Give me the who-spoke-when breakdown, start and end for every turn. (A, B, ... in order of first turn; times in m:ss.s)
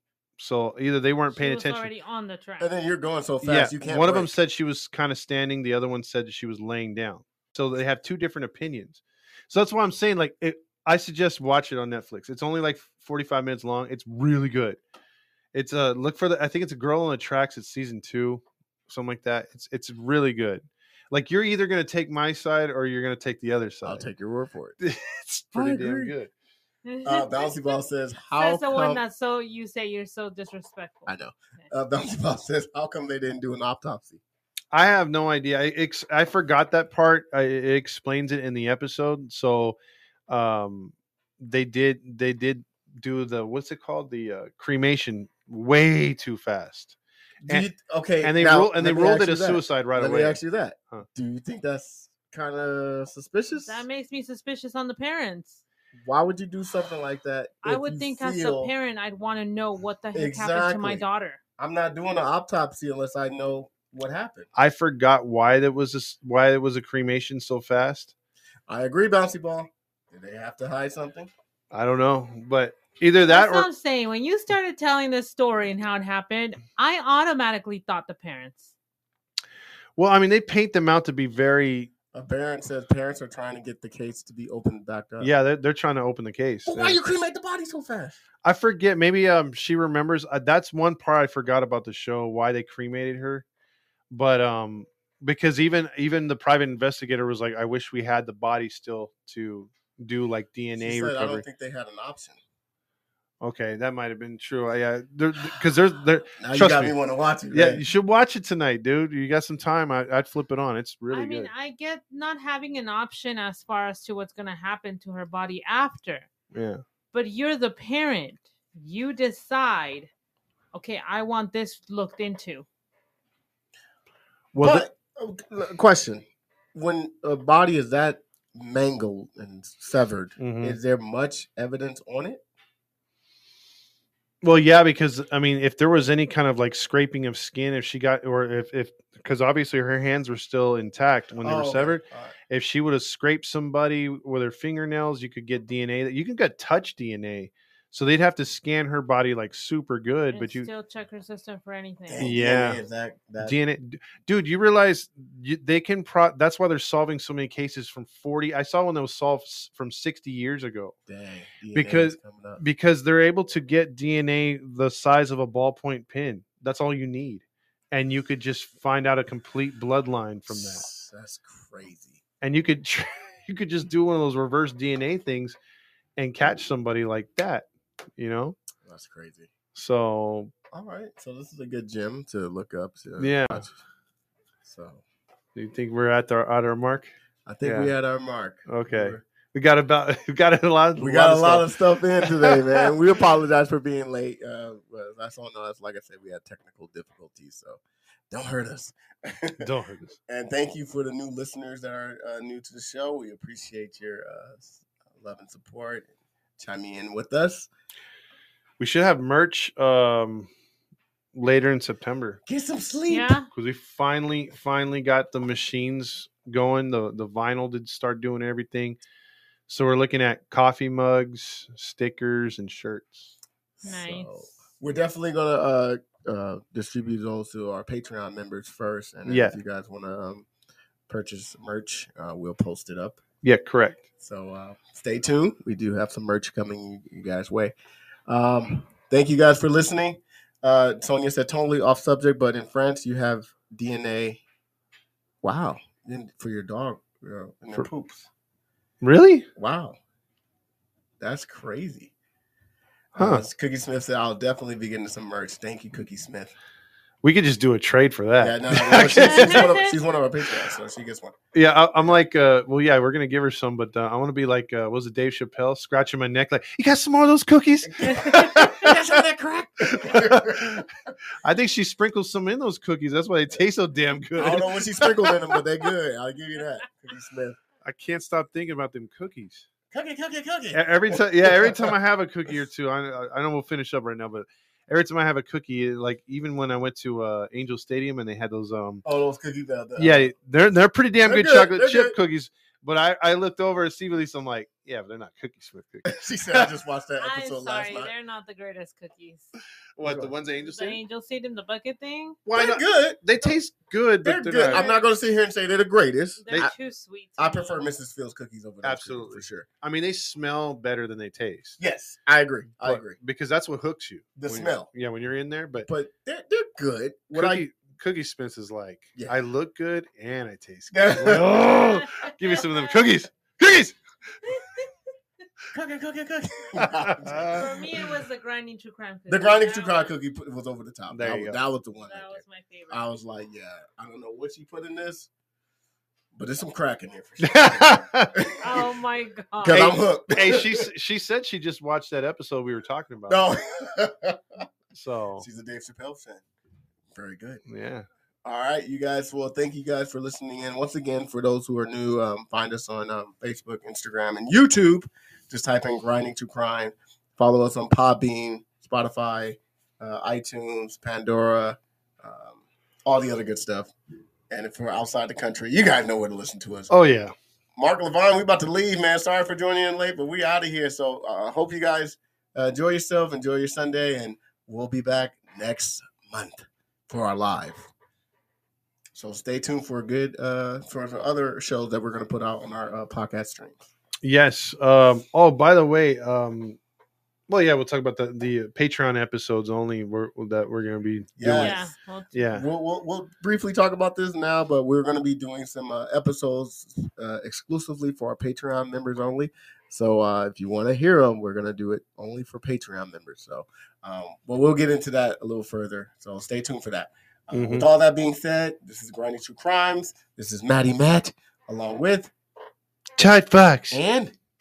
0:00.4-0:01.9 A
0:01.3-0:02.7 B
0:02.6-0:04.4 C
0:03.4-0:14.8 A
0:15.5-0:24.1 A
0:23.8-0:24.8 C
0:24.8-0:26.3 A
0:25.5-0:26.1 C
0:26.8-0:27.8 B
0:27.0-0:29.0 C
0:28.4-0:31.7 B
0:31.1-0:34.2 C
0:34.7-0:39.8 A
0:40.3-0:47.0 A
0:47.4-0:53.8 C
0:48.2-0:51.1 A
0:53.6-0:55.6 B
0:56.0-0:58.7 C
0:57.6-1:01.4 B
1:00.1-1:01.0 C
1:01.6-1:04.5 C
1:04.6-1:08.1 A
1:08.7-1:11.3 C
1:11.7-1:13.7 A
1:13.3-1:18.7 B
1:20.0-1:21.9 A
1:22.1-1:25.3 C
1:25.2-1:27.0 A
1:26.7-1:28.2 C
1:28.4-1:33.4 A
1:34.1-1:41.4 A
1:40.8-1:42.4 C
1:43.4-1:47.0 A
1:46.4-1:47.8 C
1:47.5-1:51.5 A
1:51.1-1:56.3 B
1:56.5-1:56.8 A
1:57.1-2:00.1 B
2:00.7-2:02.7 B
2:04.5-2:04.9 A
2:04.6-2:12.4 C
2:10.4-2:10.8 A
2:14.4-2:30.7 A
2:21.4-2:22.3 C
2:30.3-2:32.3 B
2:32.1-2:33.6 C
2:32.2-2:32.8 A
2:33.4-2:41.0 A
2:41.1-2:42.6 C
2:41.7-2:50.8 A
2:50.5-2:52.2 C
2:52.4-2:55.6 A
2:56.2-2:57.7 A
2:58.2-2:58.6 A
2:58.8-2:59.5 C
2:59.7-3:00.5 A
3:00.7-3:03.8 C
3:03.2-3:03.6 A
3:04.6-3:05.0 C
3:05.6-3:07.9 A
3:07.5-3:09.2 C
3:08.7-3:12.9 A
3:11.0-3:19.7 C
3:19.6-3:20.2 A
3:20.3-3:27.7 C
3:28.8-3:30.5 A
3:31.3-3:32.4 A
3:32.5-3:33.4 C
3:33.1-3:33.5 B
3:33.5-3:39.0 A
3:39.7-3:43.3 A
3:43.8-3:50.5 C
3:43.8-3:44.4 B
3:49.3-3:49.6 A
3:51.1-3:53.2 C
3:53.4-3:54.0 A
3:54.2-3:57.7 C
3:58.3-4:04.4 C
4:05.4-4:08.3 C
4:09.0-4:09.5 A
4:09.6-4:10.0 C
4:11.2-4:12.1 C
4:13.1-4:16.5 C
4:13.2-4:13.4 A
4:17.2-4:19.6 A
4:18.4-4:21.4 C
4:19.3-4:19.9 B
4:21.5-4:29.1 A
4:27.8-4:31.1 C
4:29.8-4:30.8 A
4:31.4-4:35.6 A
4:34.4-4:37.6 C
4:37.8-4:39.7 A
4:39.9-4:42.0 C
4:40.7-4:49.0 A
4:49.0-4:50.3 C
4:50.0-4:56.7 A
4:51.2-4:52.2 C
4:56.1-4:58.1 C
4:57.2-4:59.5 B
5:00.0-5:01.0 A
5:00.0-5:00.3 C
5:00.6-5:02.4 B
5:02.5-5:04.8 A
5:02.6-5:03.2 C
5:04.2-5:06.7 C
5:04.7-5:05.1 B
5:06.4-5:07.8 B
5:07.4-5:09.7 C
5:08.8-5:11.8 A
5:11.8-5:13.2 C
5:12.8-5:15.9 A
5:14.4-5:14.9 C
5:15.9-5:17.6 C
5:17.3-5:24.0 A
5:20.9-5:21.5 C
5:21.8-5:23.1 B
5:24.5-5:24.9 B
5:25.7-5:28.1 C
5:26.8-5:27.7 A
5:27.5-5:30.1 B
5:29.3-5:35.3 C
5:31.1-5:31.6 A
5:32.1-5:33.2 B
5:36.3-5:38.9 C
5:37.4-5:38.5 A
5:38.6-5:40.0 B
5:39.6-5:40.9 C
5:39.8-5:43.5 A
5:43.3-5:44.7 C
5:44.9-5:45.5 A
5:45.4-5:46.4 C
5:47.1-5:47.6 C
5:47.7-5:48.1 A
5:48.4-6:03.9 C
6:04.5-6:06.9 C
6:06.9-6:07.3 A
6:07.8-6:17.9 C
6:19.1-6:23.9 C
6:24.2-6:26.8 A
6:27.5-6:31.8 A
6:31.4-6:31.9 C
6:31.6-6:32.4 B
6:32.3-6:32.6 A
6:32.4-6:52.3 C
6:47.5-6:47.9 A
6:53.2-6:54.0 A
6:53.9-6:54.4 C